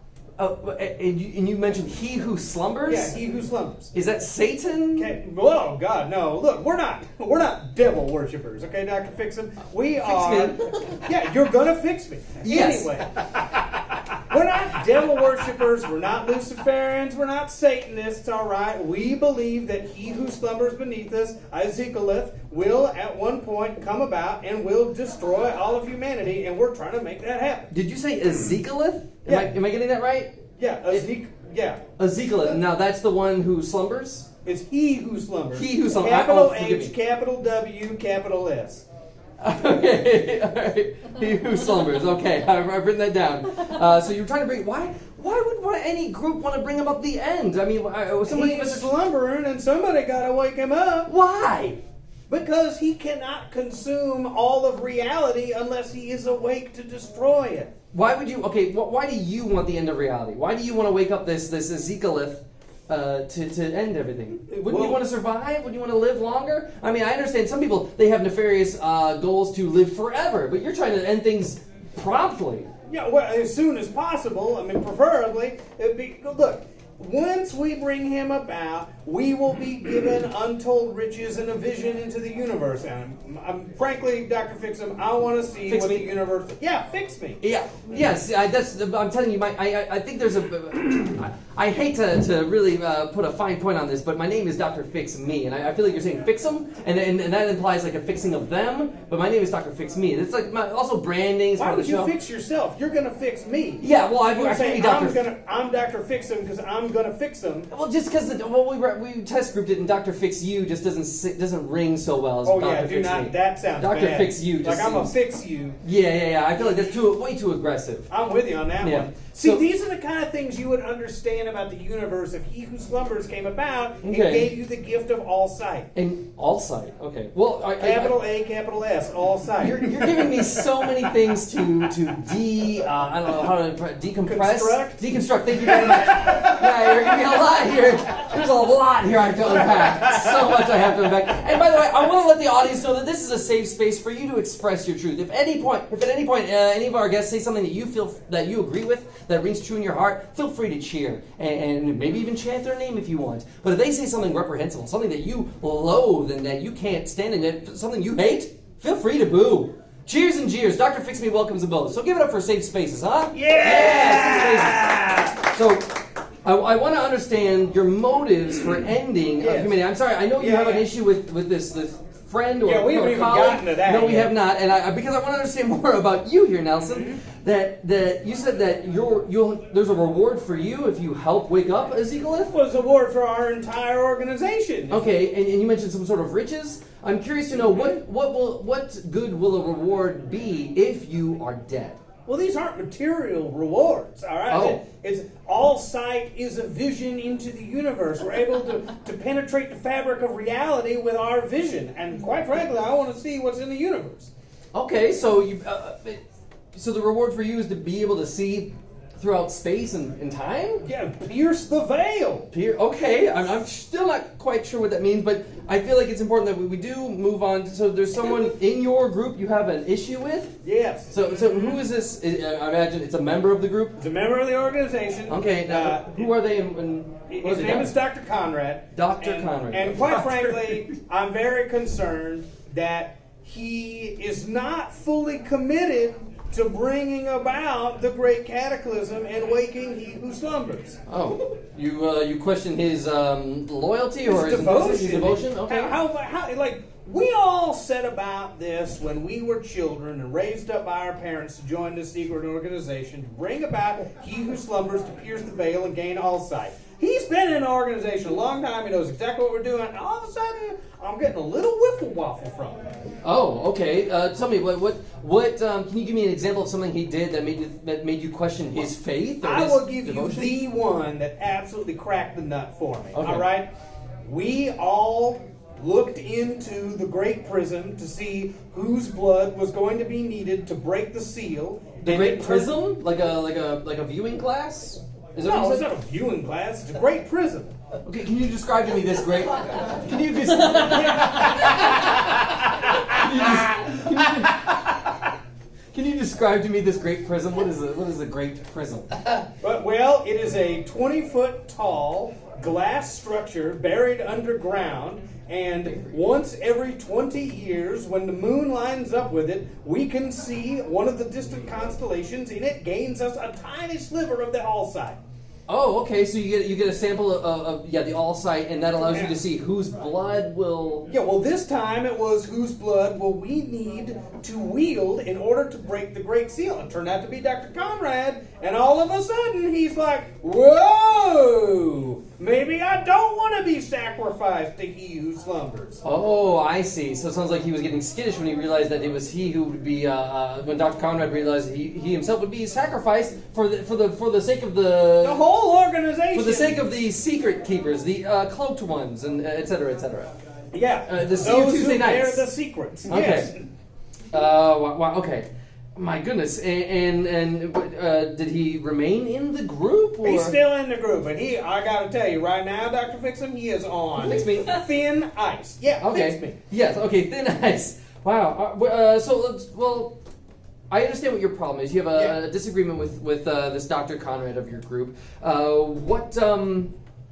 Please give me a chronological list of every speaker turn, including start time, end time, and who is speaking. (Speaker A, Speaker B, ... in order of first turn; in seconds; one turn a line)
Speaker A: 0.4-3.1
Speaker B: 2.9-3.9
Speaker A: 3.9-5.1
Speaker B: 4.9-13.1
Speaker A: 10.0-10.8
Speaker A: 12.4-12.9
Speaker B: 14.3-27.7
Speaker A: 27.7-30.3
Speaker B: 30.6-31.9
Speaker A: 32.0-34.3
Speaker B: 34.4-38.8
Speaker A: 35.5-36.9
Speaker A: 39.4-48.9
Speaker B: 48.2-51.1
Speaker A: 51.0-51.8
Speaker B: 52.3-57.7
Speaker A: 57.9-72.7
Speaker B: 64.5-65.0
Speaker B: 72.9-87.4
Speaker A: 85.7-86.1
Speaker A: 87.4-102.1
Speaker B: 101.5-107.7
Speaker A: 103.8-105.2
Speaker A: 107.7-115.1
Speaker B: 112.4-115.8
Speaker A: 115.8-118.1
Speaker B: 116.6-117.0
Speaker B: 118.1-125.9
Speaker A: 118.8-119.6
Speaker A: 124.0-124.5
Speaker A: 125.9-128.2
Speaker B: 127.8-130.7
Speaker A: 129.6-182.5
Speaker B: 134.2-136.9
Speaker B: 139.6-140.2
Speaker B: 163.3-165.4
Speaker B: 169.4-170.8
Speaker B: 172.6-174.3
Speaker B: 176.8-177.2
Speaker B: 182.5-185.1
Speaker A: 184.9-192.0
Speaker B: 187.5-187.9
Speaker B: 192.3-204.3
Speaker A: 194.5-194.8
Speaker A: 204.7-206.2
Speaker A: 206.7-210.8
Speaker B: 210.8-212.5
Speaker A: 212.5-224.0
Speaker B: 220.6-221.8
Speaker B: 224.0-226.3
Speaker A: 225.3-227.9
Speaker B: 227.3-241.0
Speaker A: 228.9-230.2
Speaker A: 241.1-245.9
Speaker B: 244.2-262.9
Speaker A: 263.2-270.6
Speaker B: 269.4-273.7
Speaker A: 273.1-273.5
Speaker B: 274.2-282.7
Speaker A: 282.0-285.9
Speaker B: 285.4-287.7
Speaker A: 288.0-292.2
Speaker B: 290.8-292.4
Speaker A: 293.0-295.0
Speaker A: 295.9-299.1
Speaker B: 299.6-315.2
Speaker A: 305.9-306.2
Speaker A: 315.7-321.1
Speaker B: 319.1-319.4
Speaker B: 321.1-336.0
Speaker A: 336.0-345.4
Speaker B: 345.2-346.8
Speaker A: 346.3-350.3
Speaker B: 350.7-353.6
Speaker A: 351.1-352.5
Speaker A: 353.1-353.5
Speaker A: 354.3-360.6
Speaker B: 360.2-366.6
Speaker A: 364.2-364.9
Speaker A: 366.0-370.1
Speaker A: 370.9-376.9
Speaker B: 372.1-372.4